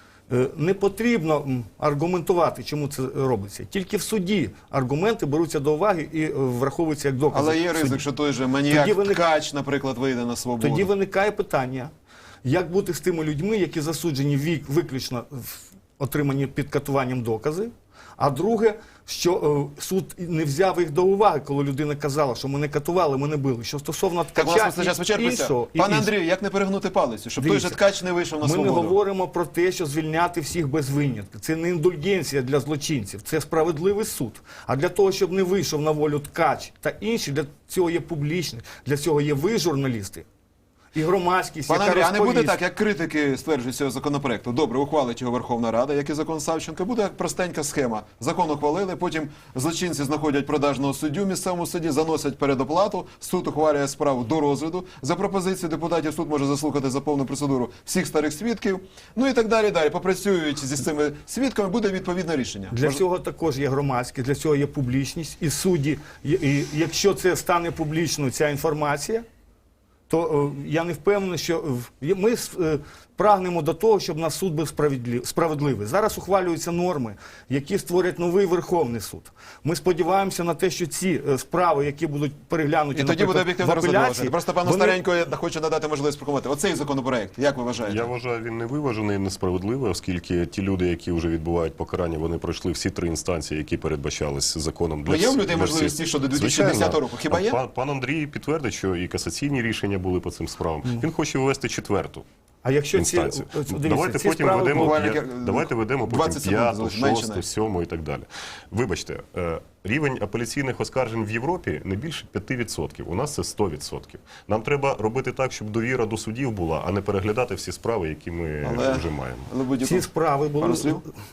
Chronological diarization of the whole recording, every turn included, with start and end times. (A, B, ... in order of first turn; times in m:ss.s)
0:00.3-0:08.0 A
0:07.3-0:10.9 B
0:08.7-0:09.2 A
0:10.6-0:11.9 A
0:12.4-0:26.1 A
0:24.3-0:29.0 B
0:27.4-0:27.8 A
0:28.4-0:40.2 A
0:40.9-0:42.6 A
0:41.7-1:03.0 B
1:02.7-1:09.2 A
1:10.1-1:25.0 A
1:22.9-1:28.1 B
1:27.8-1:42.2 C
1:35.0-1:37.6 B
1:42.6-1:45.0 A
1:42.9-1:59.5 C
1:44.7-1:47.4 B
1:58.6-2:01.0 B
1:59.8-2:01.0 A